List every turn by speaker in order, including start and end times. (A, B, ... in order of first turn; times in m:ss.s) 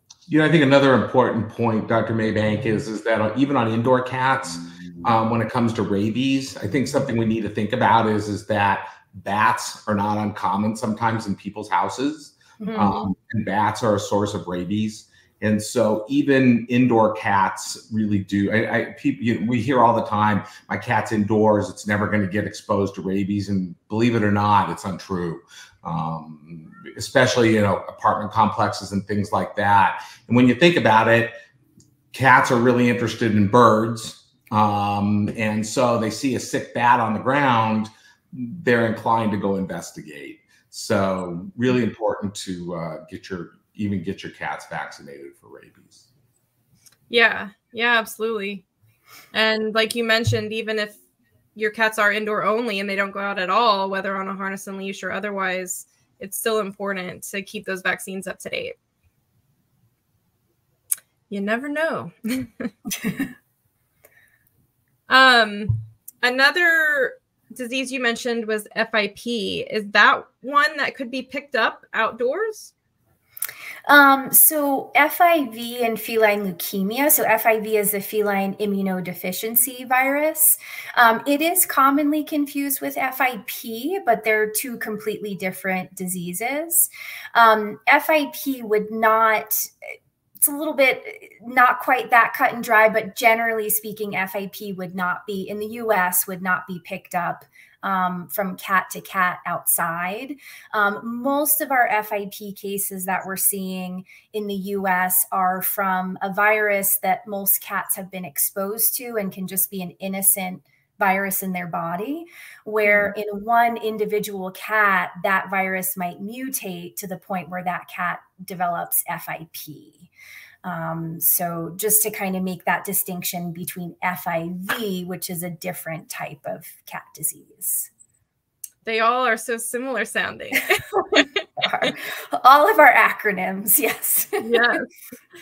0:00.3-0:31.3 A
0:12.6-0:13.1 B
0:32.1-0:46.1 A
0:47.1-0:48.6 C
0:49.3-0:51.0 C
0:51.5-0:58.8 C
1:01.3-1:02.7 C
1:05.1-1:12.7 C
1:13.9-1:29.7 B
1:30.4-2:00.1 B
1:52.8-1:53.1 C
2:00.6-2:07.9 B
2:08.8-2:11.9 C
2:11.6-2:14.7 B
2:14.4-2:14.8 C